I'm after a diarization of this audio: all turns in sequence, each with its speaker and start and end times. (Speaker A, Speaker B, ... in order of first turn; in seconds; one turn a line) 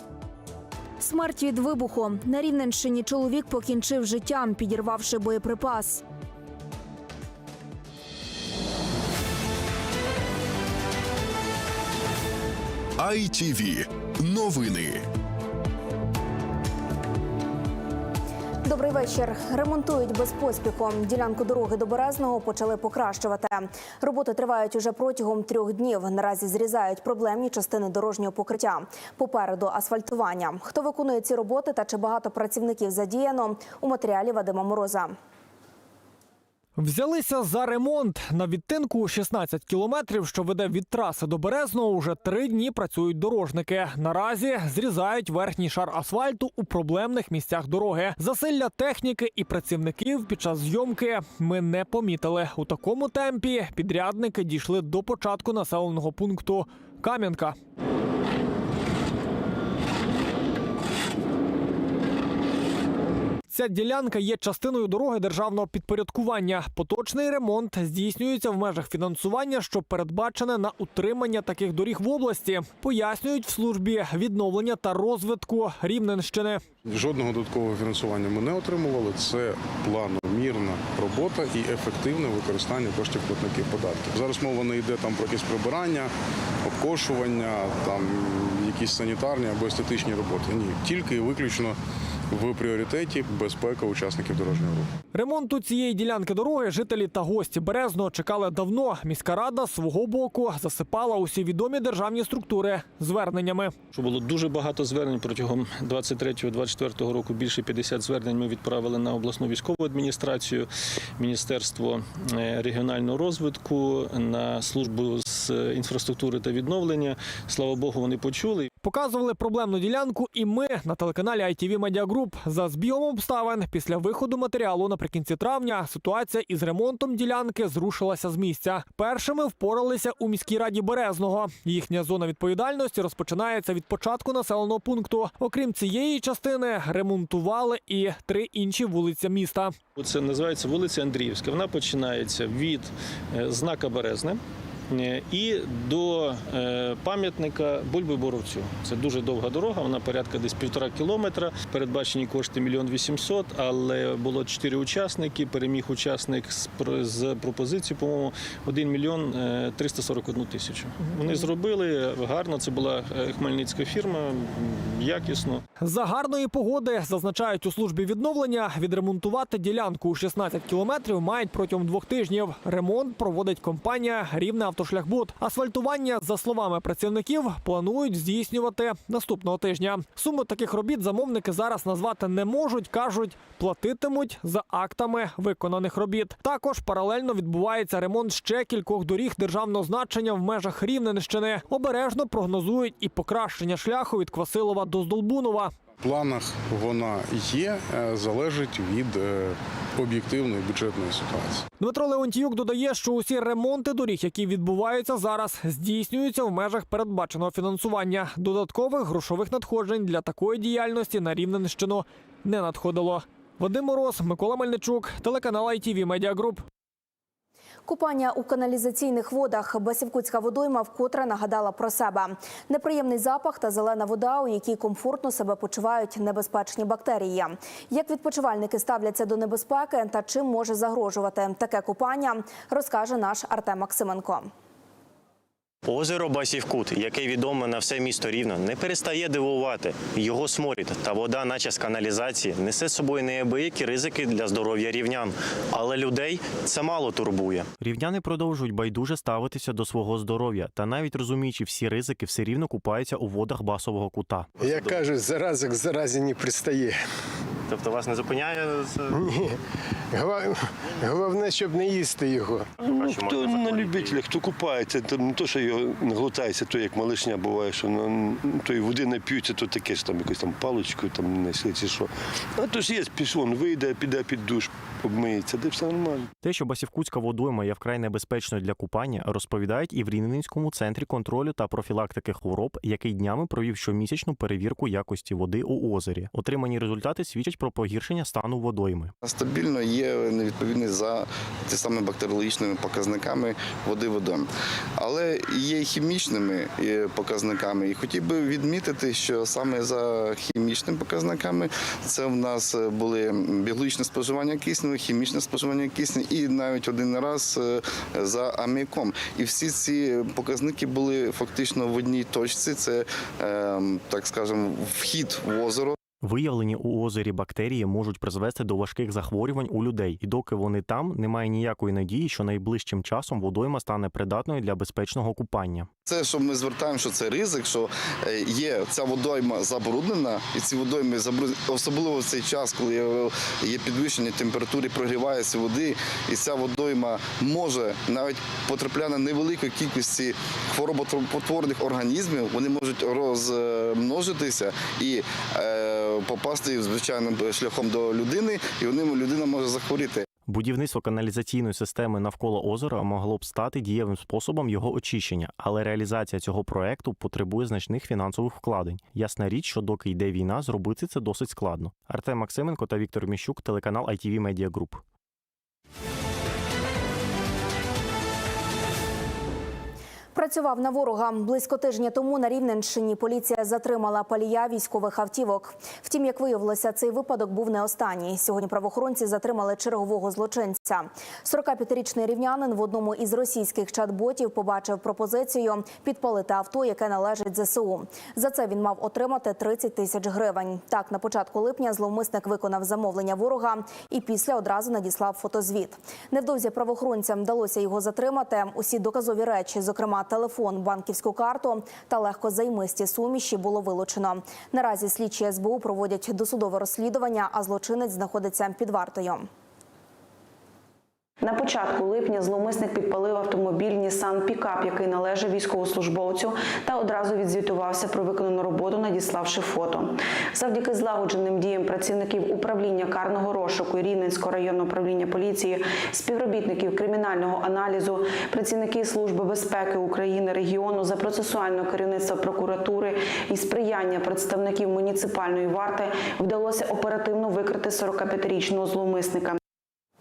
Speaker A: 1.0-6.0
Speaker A: 18.6-35.1
Speaker B: 36.8-57.5
Speaker B: 63.5-76.6
Speaker C: 76.9-86.1
Speaker C: 86.6-91.8
Speaker C: 92.3-94.9
Speaker B: 95.1-103.7
Speaker D: 103.9-118.7
Speaker B: 118.8-139.8
Speaker D: 139.9-144.4
Speaker D: 144.9-165.6
Speaker B: 165.8-195.7
Speaker C: 196.0-201.7
Speaker B: 201.8-216.7
Speaker A: 217.9-234.5
Speaker E: 235.9-247.7
Speaker F: 247.8-254.5
Speaker E: 254.6-255.0
Speaker G: 254.6-257.0
Speaker E: 257.7-259.1
Speaker G: 260.1-262.6
Speaker H: 262.8-276.3
Speaker E: 263.3-263.9
Speaker F: 276.4-289.1
Speaker I: 289.2-316.0
Speaker F: 316.2-325.9
Speaker I: 326.1-350.2
Speaker F: 350.5-365.0
Speaker A: 370.3-409.5
Speaker J: 411.4-420.1
Speaker J: 420.6-439.5